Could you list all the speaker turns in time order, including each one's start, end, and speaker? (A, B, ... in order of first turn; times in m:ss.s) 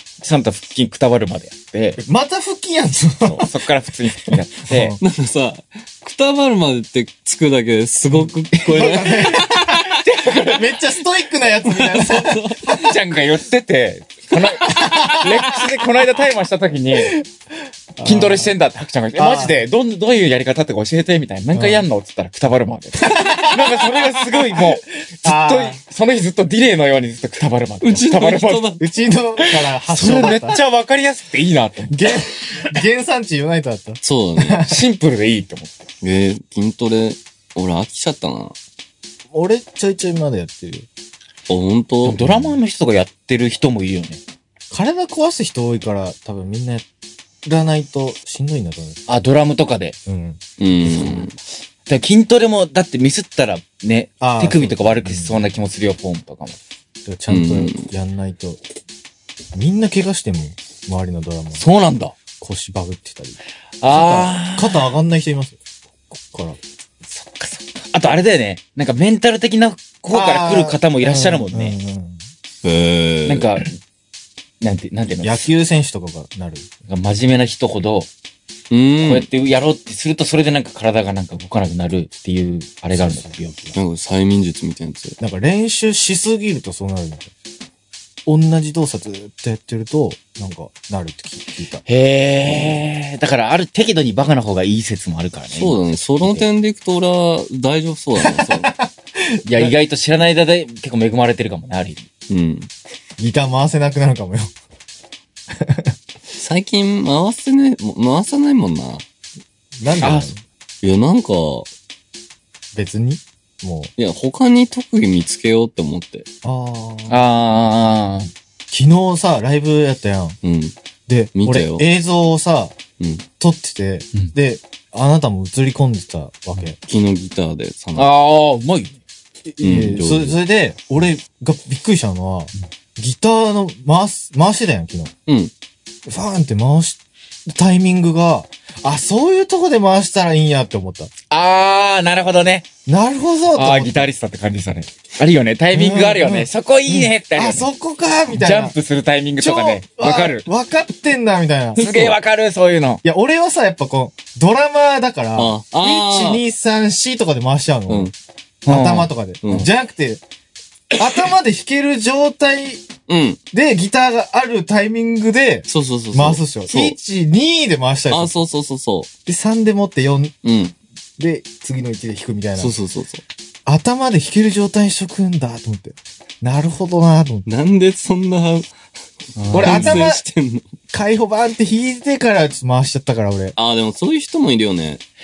0:00.2-0:02.0 A
0:02.0-0:03.5 B
0:03.2-0:05.0 A
0:04.7-0:05.0 B
0:05.0-0:10.0 C
0:08.1-0:12.9 B
0:10.0-0:10.7 A
0:11.6-0:12.8 C
0:12.7-0:17.2 A
0:14.7-0:15.3 B
0:17.0-0:17.2 B
0:18.0-0:18.5 B
0:18.0-0:28.7 A
0:19.2-0:19.6 B
0:21.5-0:21.8 B
0:23.0-0:25.8 B
0:27.8-0:28.8 C
0:28.8-0:30.6 B
0:29.4-0:32.6 A
0:31.9-0:34.8 B
0:34.0-0:34.6 C
0:34.6-0:35.8 A
0:36.0-0:38.5 C
0:39.3-0:40.9 B
0:41.5-0:42.2 C
0:42.0-0:44.2 A
0:42.2-0:42.6 B
0:44.7-0:46.8 B
0:47.4-0:49.0 B
0:49.1-0:50.0 A
0:50.0-0:51.2 B
0:50.6-0:51.3 C
0:51.9-0:56.6 A
0:54.2-0:55.4 B
0:57.0-0:58.6 B
0:57.3-0:57.9 C
0:59.5-1:01.6 B
1:01.6-1:02.1 A
1:02.4-1:05.6 B
1:03.8-1:04.9 A
1:06.1-1:06.6 B
1:07.1-1:11.7 A
1:10.1-1:12.2 B
1:12.6-1:13.6 C
1:13.2-1:13.7 A
1:14.6-1:15.4 A
1:15.2-1:16.7 B
1:16.9-1:18.1 A
1:18.7-1:19.3 C
1:19.0-1:23.7 A
1:22.9-1:23.4 B
1:23.7-1:25.2 C
1:25.2-1:27.3 B
1:28.2-1:31.8 B
1:31.8-1:36.5 A
1:35.5-1:38.7 C
1:38.2-1:39.6 B
1:39.4-1:42.0 A
1:42.3-1:42.7 C
1:43.2-1:44.5 B
1:45.5-1:45.9 B
1:46.4-1:49.0 C
1:49.8-1:50.4 B
1:50.0-1:50.3 A
1:50.8-1:51.7 C
1:52.7-1:53.9 B
1:54.0-1:56.2 C
1:56.4-1:57.2 B
1:57.1-1:58.3 A
1:58.7-2:00.4 B
2:00.4-2:00.7 C
2:01.1-2:02.8 B
2:01.3-2:01.8 C
2:03.0-2:03.2 C
2:03.4-2:06.8 B
2:06.9-2:08.1 C
2:08.0-2:08.9 A
2:09.5-2:15.1 B
2:09.6-2:10.4 C
2:16.0-2:21.1 B
2:21.3-2:22.7 A
2:22.8-2:24.1 B
2:23.5-2:27.7 A
2:25.7-2:28.7 B
2:28.3-2:30.4 A
2:29.4-2:31.8 B
2:31.8-2:32.2 C
2:31.8-2:33.0 A
2:33.0-2:38.1 B
2:35.4-2:36.4 C
2:38.6-2:39.7 A
2:38.7-2:40.2 B
2:39.4-2:39.7 C
2:41.0-2:42.8 B
2:43.1-2:43.4 C
2:43.5-2:48.3 B
2:45.7-2:47.0 C
2:48.1-2:49.1 C
2:49.2-2:50.3 B
2:50.4-2:50.7 C
2:51.2-2:52.8 B
2:52.6-2:53.2 C
2:53.6-2:57.4 B
2:57.4-2:58.7 C
2:59.4-3:00.0 A
2:59.5-3:00.6 C
2:59.5-3:00.2 B
3:00.9-3:03.6 B
3:03.6-3:05.0 C